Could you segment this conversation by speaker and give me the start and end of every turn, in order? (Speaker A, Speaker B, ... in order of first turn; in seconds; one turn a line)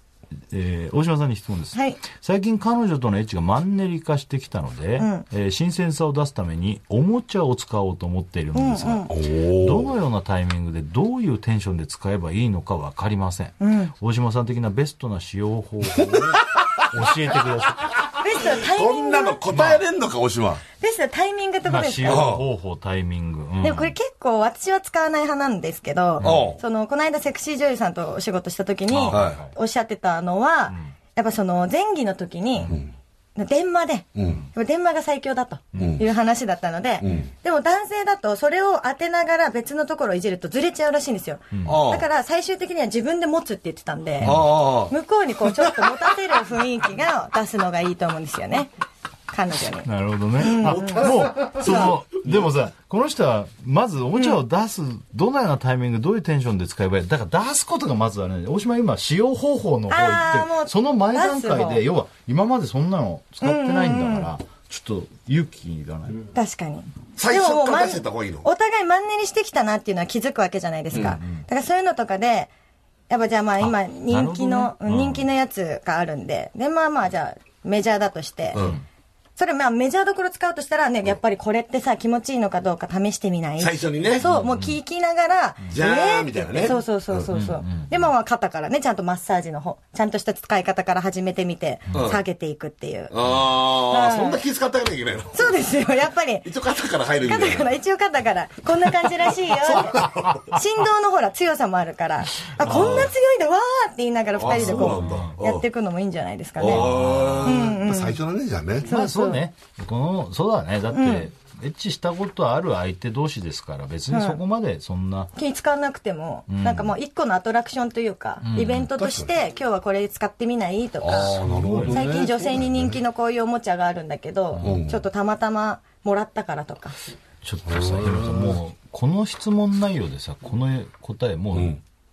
Speaker A: 0.5-17.9
Speaker B: 1.7-2.0
Speaker B: 5.0-5.2
Speaker B: 8.5-9.1
Speaker C: 9.1-10.0
Speaker B: 13.6-13.9
Speaker C: 15.9-20.6
Speaker B: 18.2-19.4
Speaker B: 20.8-22.4
Speaker A: 21.7-23.9
Speaker C: 22.0-22.4
Speaker B: 23.6-32.7
Speaker A: 26.2-26.5
Speaker C: 26.2-26.6
Speaker A: 28.9-29.5
Speaker C: 29.1-29.4
Speaker B: 33.4-48.7
Speaker C: 34.1-34.4
Speaker A: 35.7-36.0
Speaker C: 35.8-36.1
Speaker C: 37.0-37.3
Speaker A: 41.5-41.9
Speaker C: 41.6-42.1
Speaker A: 44.2-44.5
Speaker C: 44.2-44.9
Speaker B: 49.3-49.9
Speaker A: 49.8-66.2
Speaker B: 50.4-51.9
Speaker C: 50.6-52.5
Speaker B: 59.9-61.8
Speaker B: 63.4-64.3
Speaker B: 66.3-72.5
Speaker C: 67.2-68.5
Speaker C: 70.9-71.2
Speaker A: 71.0-71.4
Speaker B: 73.1-78.7
Speaker A: 73.6-75.3
Speaker C: 78.5-78.8
Speaker A: 78.6-78.8
Speaker B: 79.4-93.1
Speaker C: 83.6-84.3
Speaker A: 84.2-84.8
Speaker C: 85.7-87.3
Speaker A: 87.3-87.9
Speaker C: 91.9-92.2
Speaker C: 93.1-95.5
Speaker B: 93.7-94.4
Speaker B: 95.3-96.5
Speaker C: 96.4-97.7
Speaker B: 97.2-106.9
Speaker C: 99.2-100.6
Speaker A: 102.6-103.1
Speaker C: 102.6-103.1
Speaker C: 104.3-105.7
Speaker A: 104.5-105.4
Speaker C: 106.6-108.9
Speaker A: 106.7-107.7
Speaker B: 107.4-108.2
Speaker B: 108.8-109.4
Speaker A: 108.9-115.3
Speaker B: 110.9-111.3
Speaker B: 114.1-114.4
Speaker B: 115.3-126.9
Speaker A: 116.5-116.9
Speaker A: 118.4-118.9
Speaker C: 118.9-119.3
Speaker C: 121.0-122.9
Speaker A: 121.4-122.2
Speaker A: 124.5-124.9
Speaker C: 124.6-125.0
Speaker A: 127.4-131.8
Speaker C: 127.7-128.6
Speaker C: 131.5-131.8